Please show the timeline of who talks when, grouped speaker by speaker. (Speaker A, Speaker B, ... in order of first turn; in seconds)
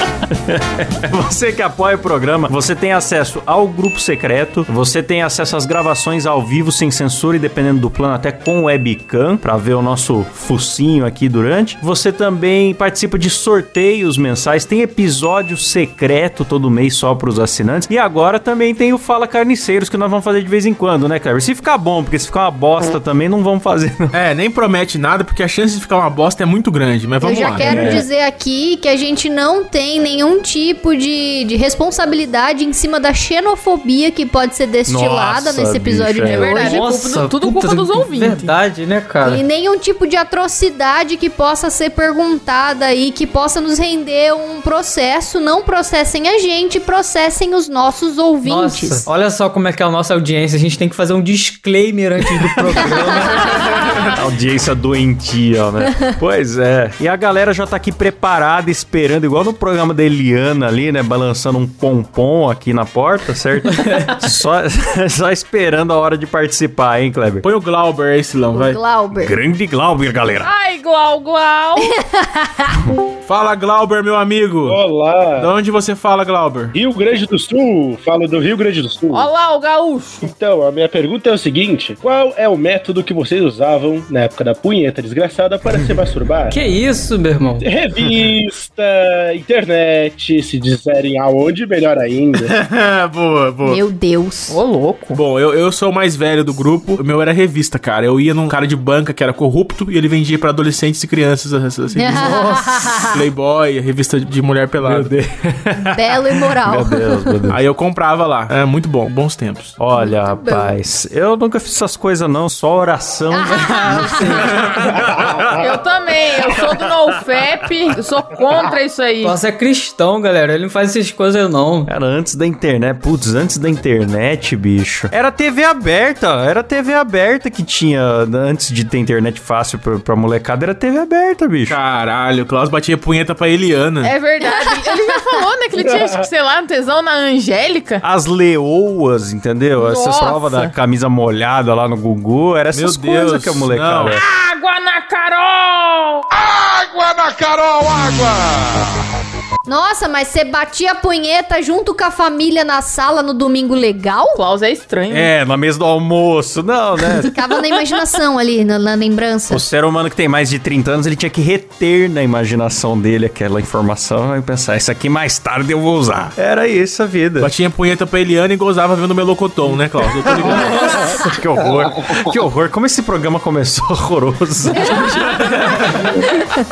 Speaker A: 0.5-24.1, 27.6-28.1, 34.9-36.6, 52.4-67.5, 69.2-70.5, 104.8-107.6, 109.8-115.8, 121.9-131.8, 138.0-144.2, 146.6-148.8, 155.1-157.3, 159.5-167.5, 170.3-176.2
Speaker B: 24.1-27.9, 67.4-68.8, 73.2-74.8, 75.4-76.8, 92.4-93.8, 95.1-105.1, 107.5-109.8, 131.7-134.1, 142.7-144.2, 167.4-170.9
Speaker C: 27.2-36.8, 39.2-49.1, 68.5-69.3, 71.8-72.8, 93.6-94.6, 102.0-103.2, 105.8-107.3, 110.0-110.8, 113.3-114.5, 149.7-154.4, 157.3-159.6
Speaker D: 36.3-38.5, 70.4-72.0, 79.1-80.3, 94.5-95.2, 115.6-119.4, 134.0-138.0, 139.8-140.7, 144.1-146.2, 154.3-155.3
Speaker E: 36.5-39.4, 48.4-53.8, 86.5-87.7, 119.2-121.9, 170.8-171.2
Speaker F: 74.7-75.5, 76.7-79.3, 80.2-86.6, 87.6-92.5, 135.8-136.2